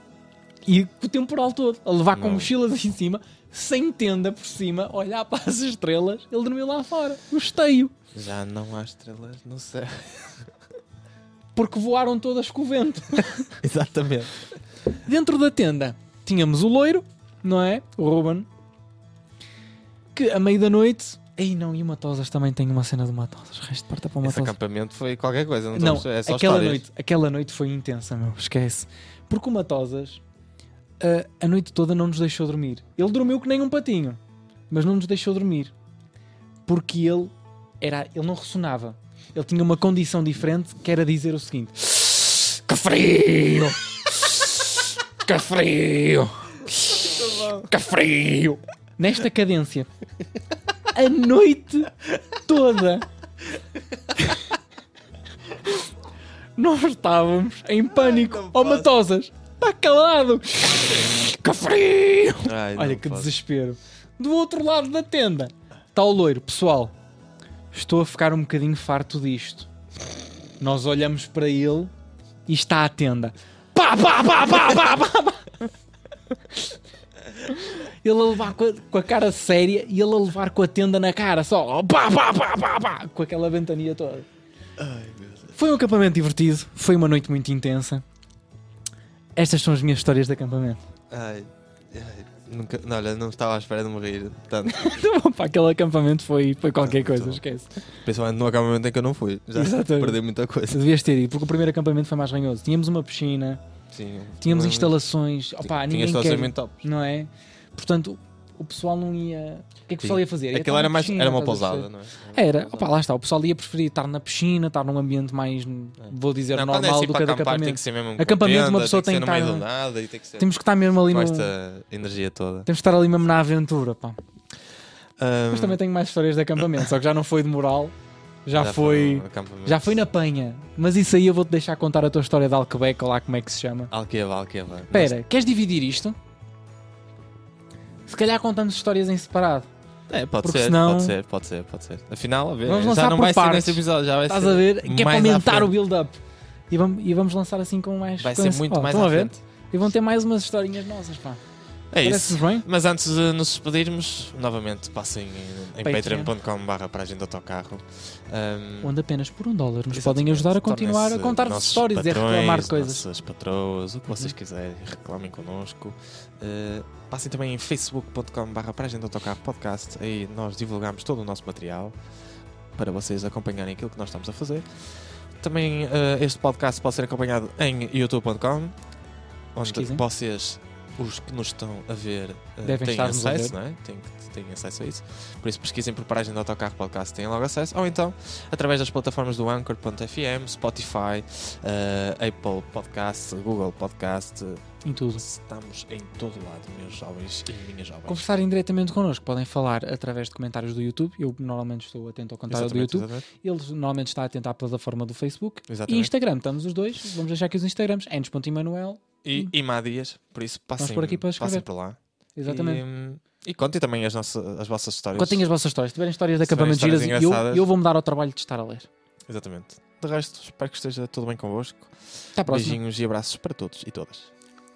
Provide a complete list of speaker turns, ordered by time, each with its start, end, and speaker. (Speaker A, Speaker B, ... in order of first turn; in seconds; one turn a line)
Speaker A: 0.7-7.9
Speaker B: 2.1-2.5
Speaker B: 8.1-10.4
Speaker A: 11.5-13.6
Speaker B: 13.6-14.3
Speaker A: 15.0-18.5
Speaker A: 20.1-24.5
Speaker B: 24.2-26.8
Speaker A: 25.7-30.2
Speaker A: 31.0-34.2
Speaker A: 34.7-35.7
Speaker A: 36.7-49.9
Speaker B: 46.9-47.7
Speaker A: 50.9-53.0
Speaker A: 55.6-55.9
Speaker A: 56.6-66.9
Speaker B: 57.9-58.9
Speaker B: 62.4-63.3
Speaker A: 67.7-69.7
Speaker A: 70.6-71.9
Speaker A: 72.5-75.5
Speaker A: 77.5-84.3
Speaker B: 84.8-85.6
Speaker A: 85.5-88.0
Speaker A: 89.4-90.8
Speaker B: 91.1-94.9
Speaker A: 94.7-97.7
Speaker B: 96.8-97.4
Speaker B: 98.0-100.8
Speaker A: 99.5-100.2
Speaker A: 100.7-103.6
Speaker B: 103.9-105.0
Speaker A: 104.4-119.7
Speaker B: 105.6-106.8
Speaker B: 110.0-112.9
Speaker B: 116.0-120.5
Speaker A: 120.4-121.5
Speaker B: 121.0-122.7
Speaker A: 122.7-124.2
Speaker B: 125.2-125.8
Speaker A: 125.5-127.9
Speaker A: 128.4-133.9
Speaker B: 128.5-130.0
Speaker B: 133.9-135.2
Speaker A: 134.9-136.2
Speaker A: 138.1-139.7
Speaker B: 140.1-145.8
Speaker A: 140.4-141.2
Speaker A: 142.6-146.2
Speaker A: 146.7-151.4
Speaker B: 148.2-149.4
Speaker B: 151.9-158.9
Speaker A: 152.0-152.7
Speaker A: 155.8-156.3
Speaker A: 158.8-163.0
Speaker B: 159.9-171.9
Speaker B: 172.8-178.7
Speaker B: 179.5-194.6
Speaker A: 179.6-180.0
Speaker A: 182.6-183.6
Speaker A: 194.8-195.2
Speaker B: 195.2-198.3
Speaker A: 198.1-209.5
Speaker B: 202.5-203.3
Speaker B: 205.7-206.1
Speaker B: 209.2-215.4
Speaker A: 210.8-211.7
Speaker A: 212.3-212.8
Speaker A: 215.1-218.9
Speaker B: 216.4-217.7
Speaker B: 219.3-224.3
Speaker A: 222.3-222.8